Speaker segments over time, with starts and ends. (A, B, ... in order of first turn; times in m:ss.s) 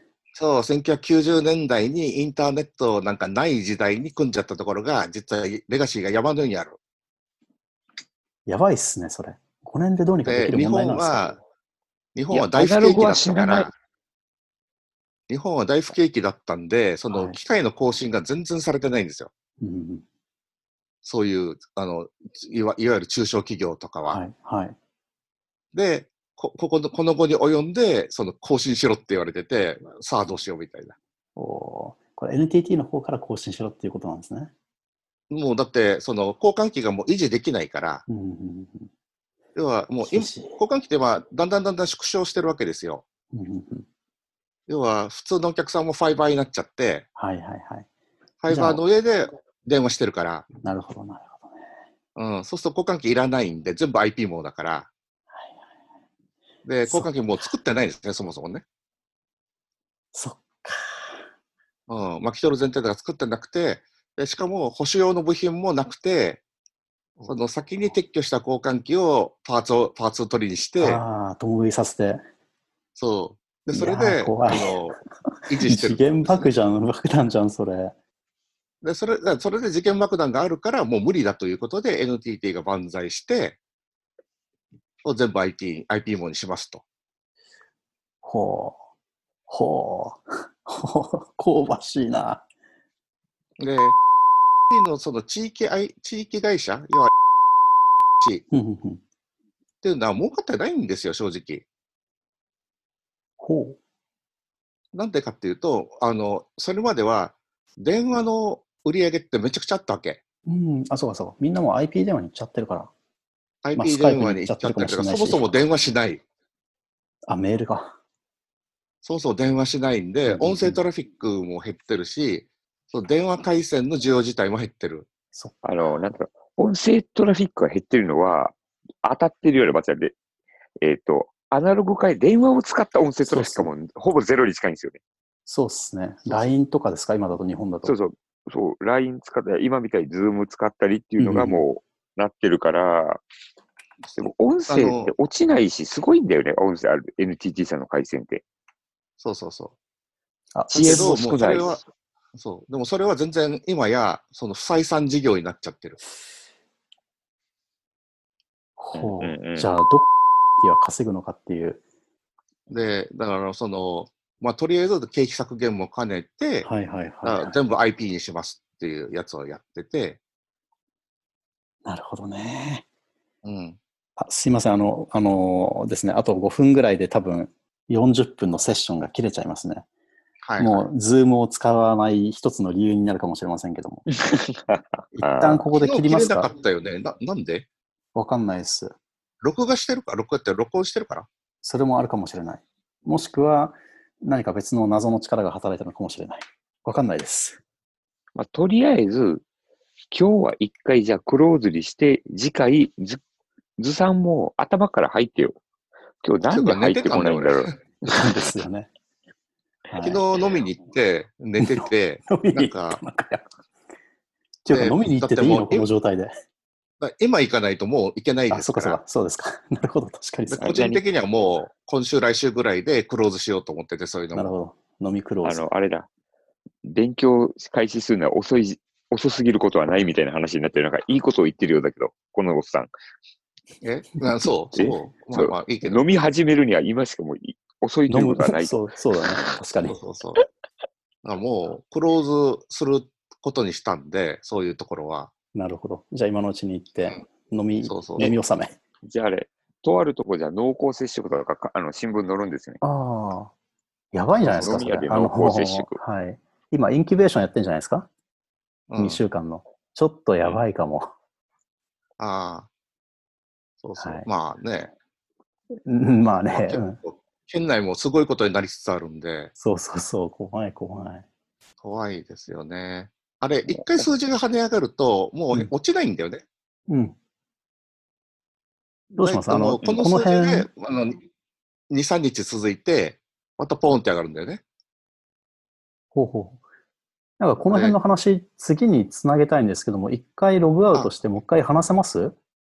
0:00.3-0:06.8 A
0:08.5-0:11.2 B
0:10.2-0:11.4 A
0:12.1-0:13.7 A
0:12.3-0:13.7 C
0:15.3-0:19.3 A
0:17.1-0:17.4 B
0:19.6-0:20.0 B
0:21.0-0:24.2 A
0:24.1-0:24.8 B
0:25.7-0:31.0 A
0:31.4-0:34.5 B
0:35.3-0:38.0 A
0:38.1-0:38.9 B
0:39.5-0:43.0 A
0:40.0-0:40.6 B
0:43.3-0:43.9 B
0:44.7-0:47.0 A
0:47.2-0:47.9 B
0:48.4-0:50.4 A
0:48.5-0:48.8 B
0:50.6-0:51.7 B
0:52.2-0:54.9 A
0:56.6-0:58.6 A
1:00.1-1:01.2 B
1:01.9-1:06.4 A
1:07.2-1:11.0 A
1:10.8-1:12.2 B
1:13.0-1:16.5 A
1:13.7-1:14.8 B
1:15.6-1:17.9 B
1:18.8-1:23.6 A
1:25.0-1:26.8 A
1:28.2-1:28.8 B
1:29.5-1:32.4 B
1:33.6-1:34.0 A
1:34.7-1:37.1 A
1:38.5-1:39.0 B
1:39.8-1:41.6 A
1:43.4-1:43.8 B
1:44.9-1:50.2 A
1:50.4-1:52.9 B
1:53.6-1:56.2 A
1:53.8-1:55.5 B
1:57.3-1:57.9 B
1:59.0-2:05.1 A
2:00.3-2:00.8 B
2:05.3-2:05.6 B
2:05.6-2:10.2 C
2:10.8-2:15.0 C
2:13.2-2:13.7 B
2:15.4-2:17.9 B
2:17.8-2:23.2 C
2:21.2-2:21.6 B
2:24.1-2:28.4 C
2:24.7-2:25.1 A
2:29.2-2:29.7 A
2:30.5-2:31.2 B
2:30.7-2:31.8 C
2:30.7-2:31.8 A
2:32.4-2:36.0 A
2:38.8-2:40.1 B
2:38.9-2:39.7 C
2:40.6-2:41.8 B
2:42.7-2:46.7 A
2:46.6-2:47.5 B
2:47.2-2:50.2 A
2:51.8-2:52.8 B
2:53.4-2:53.8 A
2:54.2-2:59.9 B
3:00.4-3:00.9 A
3:00.6-3:04.0 B
3:04.1-3:05.6 C
3:05.2-3:06.5 B
3:05.7-3:07.6 A
3:08.1-3:09.0 B
3:09.4-3:11.3 A
3:11.6-3:17.6 B
3:18.3-3:19.4 C
3:20.1-3:23.2 C
3:23.8-3:25.6 C
3:26.2-3:28.4 C
3:26.5-3:27.7 A
3:28.0-3:28.9 B
3:29.9-3:30.2 B
3:30.0-3:33.0 A
3:31.6-3:33.4 B
3:34.6-3:36.3 B
3:34.7-3:35.9 A
3:37.0-3:39.0 A
3:38.5-3:40.9 B
3:40.5-3:44.5 A
3:40.6-3:41.0 C
3:44.3-3:45.6 B
3:45.4-3:46.1 C
3:46.8-3:52.9 C
3:53.8-3:56.0 A
3:54.7-3:59.6 C
3:58.1-4:00.0 B
3:59.8-4:00.4 A
4:01.2-4:05.3 A
4:05.5-4:08.8 B
4:07.8-4:08.3 A
4:09.0-4:12.8 C
4:12.8-4:13.5 B
4:14.1-4:18.1 B
4:14.4-4:16.0 C
4:18.9-4:19.2 A
4:19.0-4:21.1 B
4:22.2-4:22.7 A
4:23.8-4:24.9 A
4:24.0-4:24.3 B
4:25.8-4:27.0 B
4:26.5-4:29.5 A
4:29.6-4:31.2 B
4:31.8-4:36.4 A
4:36.9-4:37.2 B
4:39.1-4:40.7 B
4:39.2-4:41.2 A
4:41.9-4:44.6 A
4:46.1-4:46.6 B
4:47.4-4:52.4 B
4:47.7-4:48.0 A